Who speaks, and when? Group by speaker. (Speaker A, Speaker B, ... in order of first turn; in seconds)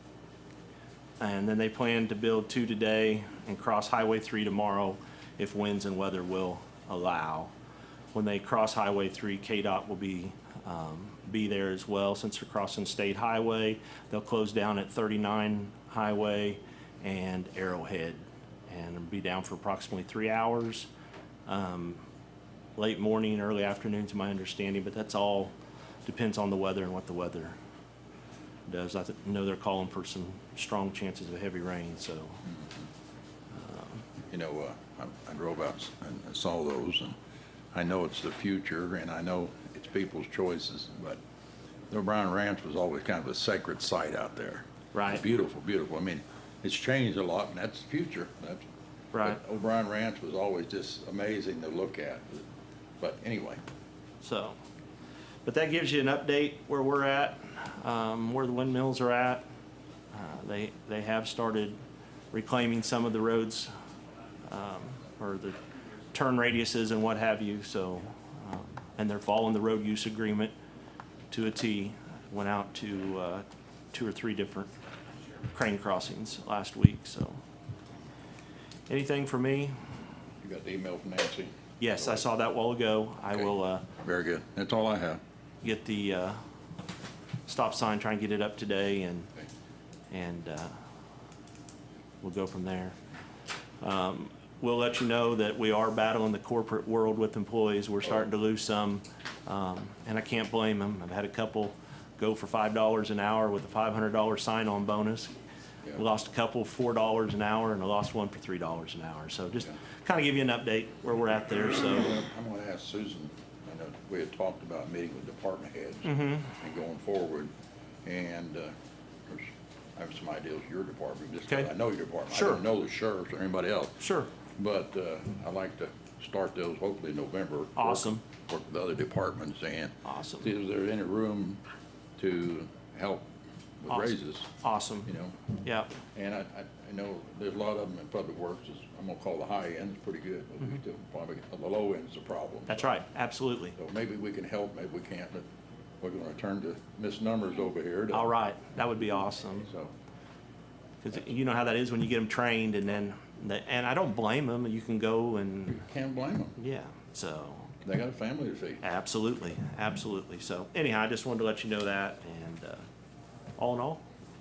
Speaker A: 1.2-7.5, 8.1-20.9, 21.5-22.0, 22.8-25.5, 26.1-27.6, 28.7-32.4, 33.5-34.0, 44.9-45.2, 49.1-49.4, 54.2-54.6, 55.5-59.4, 60.1-61.8, 62.3-63.7, 64.5-65.6, 66.1-70.5, 71.3-74.7, 75.5-77.4, 78.9-79.8, 81.8-83.9, 85.6-86.4, 87.5-89.3, 90.1-90.8, 92.2-93.0, 93.8-105.3, 106.0-112.2, 116.0-116.5, 122.3-122.6, 124.0-124.3, 127.8-128.2, 130.1-130.5, 133.9-135.1, 135.6-135.9, 142.7-143.8, 148.1-149.7, 151.0-155.8, 156.6-157.7, 158.8-162.9, 163.6-164.0
Speaker B: 34.3-37.2, 37.7-41.2, 41.9-48.6, 49.2-52.5, 53.0-53.6, 80.4-82.2, 84.0-85.2, 112.0-117.5, 118.0-118.7, 119.3-124.0, 124.6-131.6, 132.2-133.3, 133.8-134.5, 135.1-135.4, 136.1-142.9, 143.8-145.4, 146.0-148.3, 155.8-156.5, 157.8-158.8